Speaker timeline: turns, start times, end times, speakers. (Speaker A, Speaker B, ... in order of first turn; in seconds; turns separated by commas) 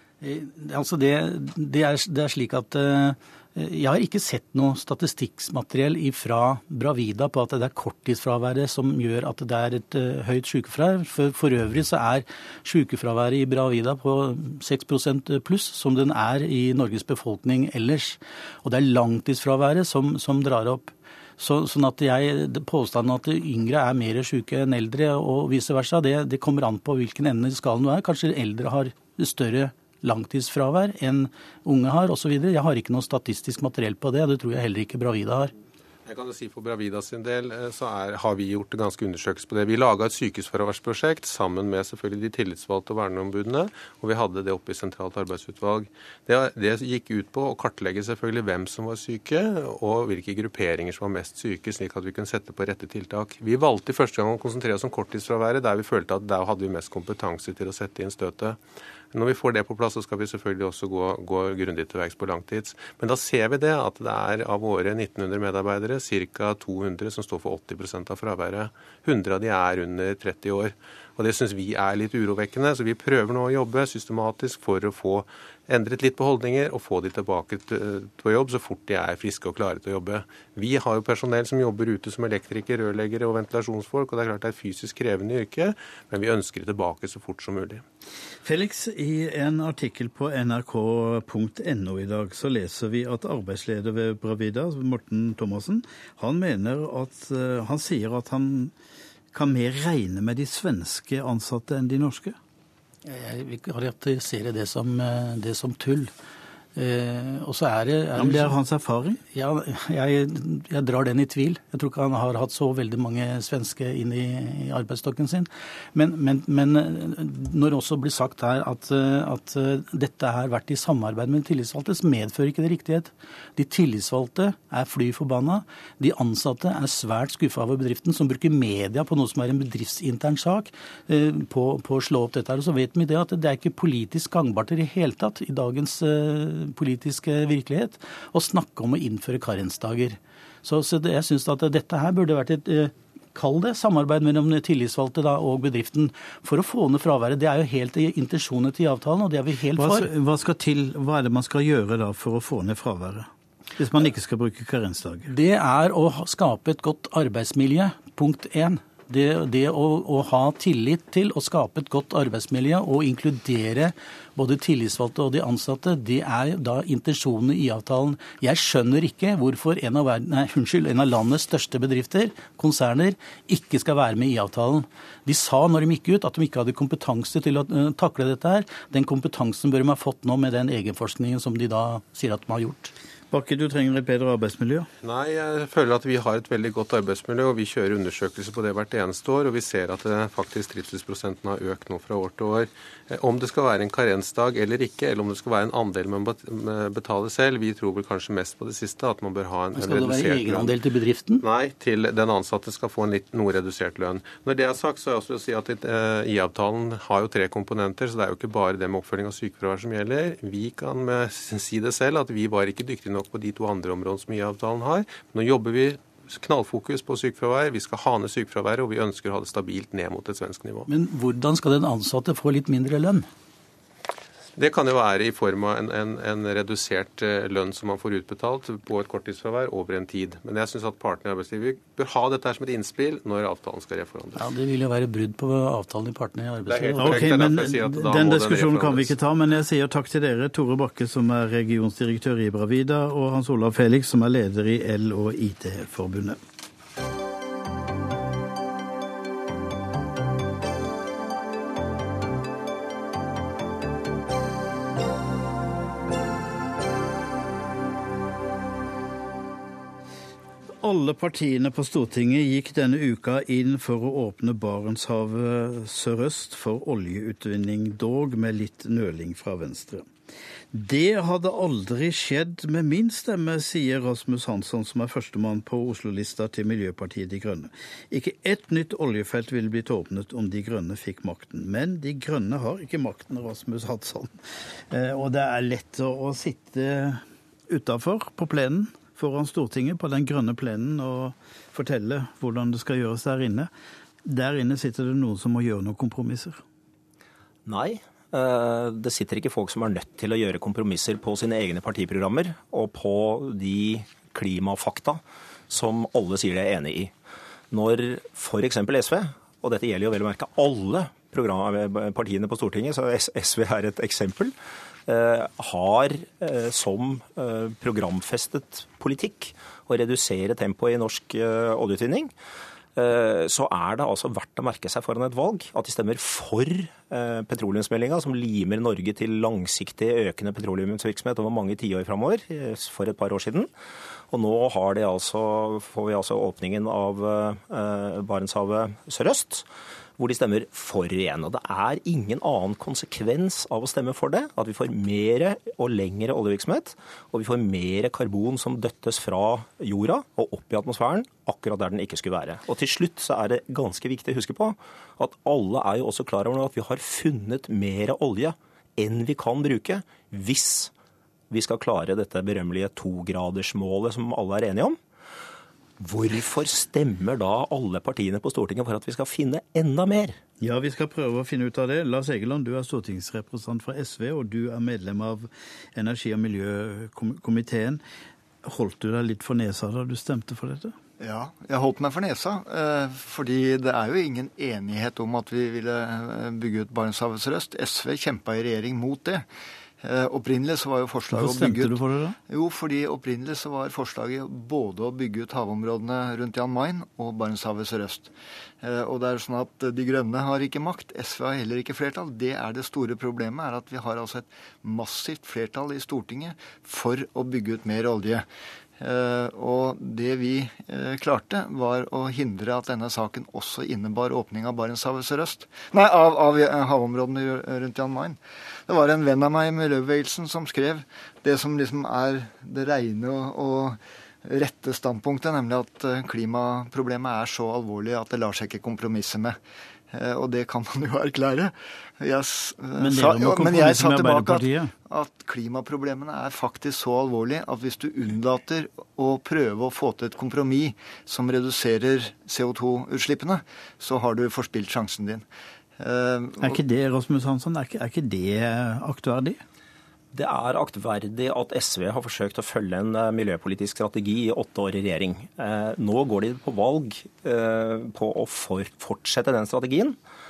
Speaker A: 0.2-35.5, Speaker B: 36.1-58.6, Speaker B: 59.1-87.8, Speaker C: 88.4-98.7, Speaker C: 99.3-102.4, Speaker A: 103.0-106.1, Speaker A: 106.8-108.6, Speaker C: 108.2-109.2, Speaker A: 109.3-150.1, Speaker C: 149.8-155.3, Speaker A: 155.3-182.9, Speaker C: 183.3-184.9, Speaker B: 185.0-200.8, Speaker A: 199.7-201.4, Speaker B: 201.4-220.9, Speaker A: 220.9-223.3, Speaker B: 224.6-234.4, Speaker A: 234.4-237.4, Speaker B: 236.7-239.1, Speaker C: 237.0-246.4, Speaker C: 260.8-270.1, Speaker C: 270.7-293.7, Speaker C: 294.2-296.6, Speaker D: 297.7-307.1, Speaker D: 307.7-314.5, Speaker D: 315.1-322.3, Speaker D: 323.0-333.7, Speaker D: 334.3-339.7, Speaker D: 340.2-360.9, Speaker D: 361.5-365.0, Speaker D: 366.0-370.4, Speaker C: 370.6-378.0, Speaker C: 378.6-380.9, Speaker E: 381.2-389.5, Speaker E: 390.0-408.5, Speaker C: 391.3-392.4, Speaker E: 409.0-429.6, Speaker E: 430.1-445.5, Speaker C: 433.0-434.9, Speaker E: 446.0-446.8, Speaker C: 446.6-449.6, Speaker D: 450.3-460.2